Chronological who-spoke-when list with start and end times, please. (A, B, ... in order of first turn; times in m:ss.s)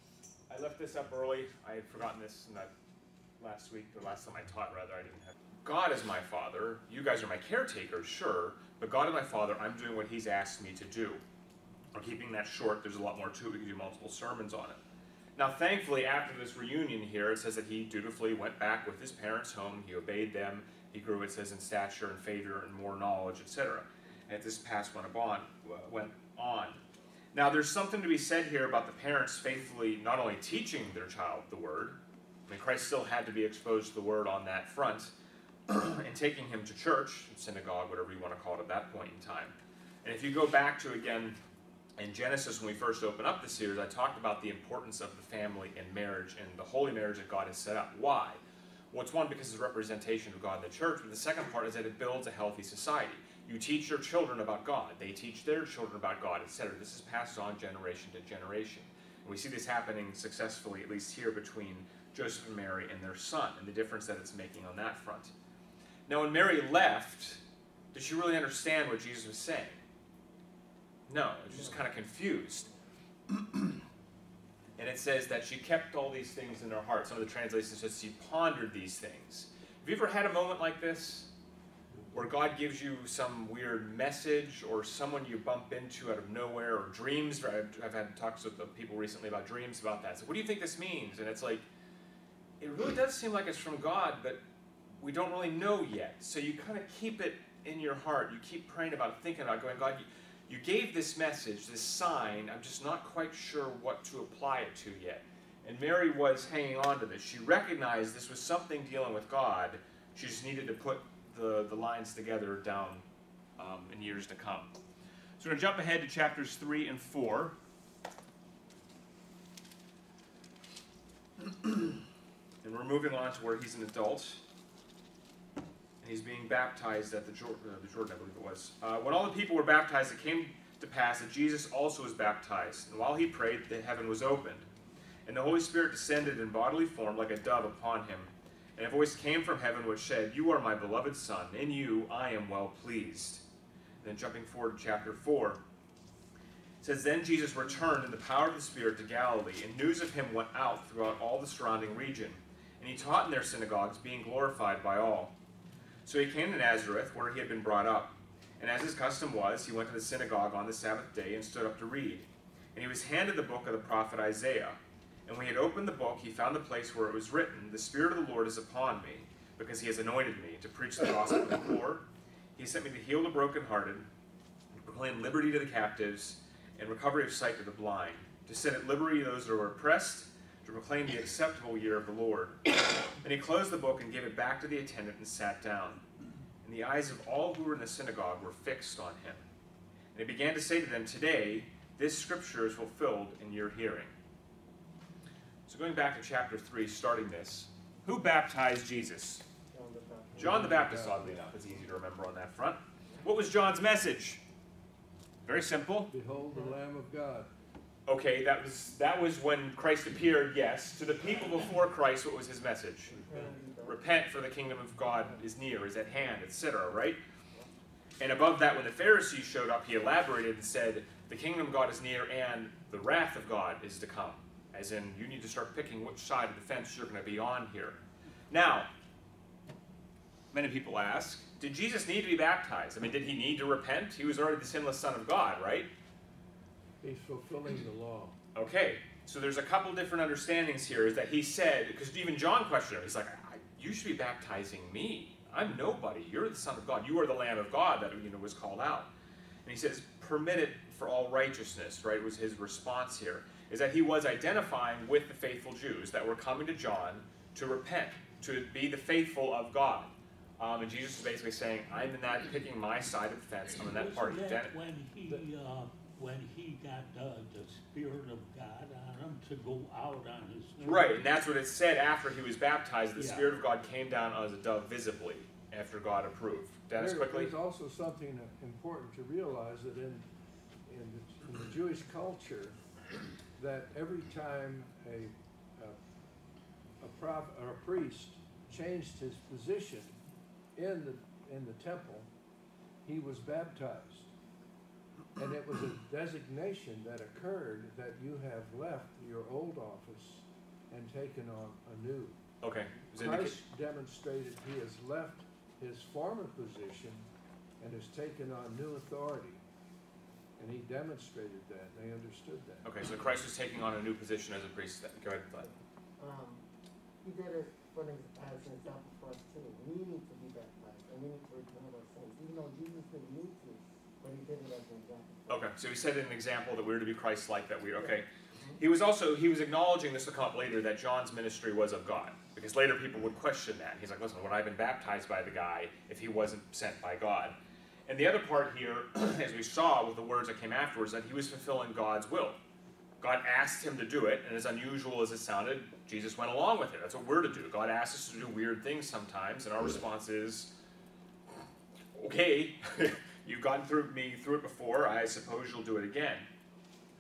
0:00.5-0:02.7 A
0:03.4-0:11.2 A
0:11.9-0:14.8 A
0:15.4-0:26.8 A
0:27.3-0:35.1 A
0:35.7-0:41.4 A
0:42.0-0:48.4 A
0:48.9-1:05.3 A
1:06.1-1:07.4 A
1:07.9-1:09.8 A
1:11.1-1:12.7 A
1:13.3-1:13.8 A
1:14.8-1:21.3 A
1:22.1-1:31.6 A
1:32.6-1:34.4 A
1:35.0-1:53.0 A
1:53.6-1:54.7 A
1:55.4-1:57.6 A
2:01.4-2:02.0 A
2:02.6-2:04.4 A
2:06.0-2:14.7 A
2:15.3-2:23.4 A
2:24.0-2:25.6 A
2:26.8-2:35.3 A
2:36.0-2:54.1 A
2:54.8-3:06.1 A
3:06.6-3:09.4 A
3:10.1-3:14.1 A
3:15.7-3:19.4 A
3:19.7-3:21.4 B
3:20.4-3:21.3 C
3:20.4-3:24.4 A
3:25.4-3:26.1 A
3:26.1-3:27.5 C
3:28.1-3:33.2 A
3:33.1-3:34.2 B
3:33.8-3:37.2 A
3:38.2-3:48.0 A
3:48.5-3:48.9 A
3:50.5-3:55.9 A
3:57.0-3:58.4 C
3:58.6-4:09.1 A
4:09.6-4:24.7 A
4:23.8-4:31.2 D
4:30.8-4:37.5 A
4:33.2-4:33.5 D
4:37.0-4:40.3 C
4:40.9-4:42.8 C
4:43.6-4:46.0 C
4:47.0-4:50.1 C
4:50.8-4:52.3 C
4:53.0-4:54.3 C
4:55.4-5:02.4 C
5:02.6-5:03.6 A
5:03.2-5:07.3 C
5:07.8-5:09.6 C
5:10.6-5:12.9 C
5:12.8-5:15.7 A
5:16.2-5:16.6 B
5:17.2-5:25.7 B
5:25.5-5:28.3 A
5:28.8-5:37.6 A
5:38.1-5:42.6 A
5:43.2-5:50.7 A
5:52.1-5:56.5 A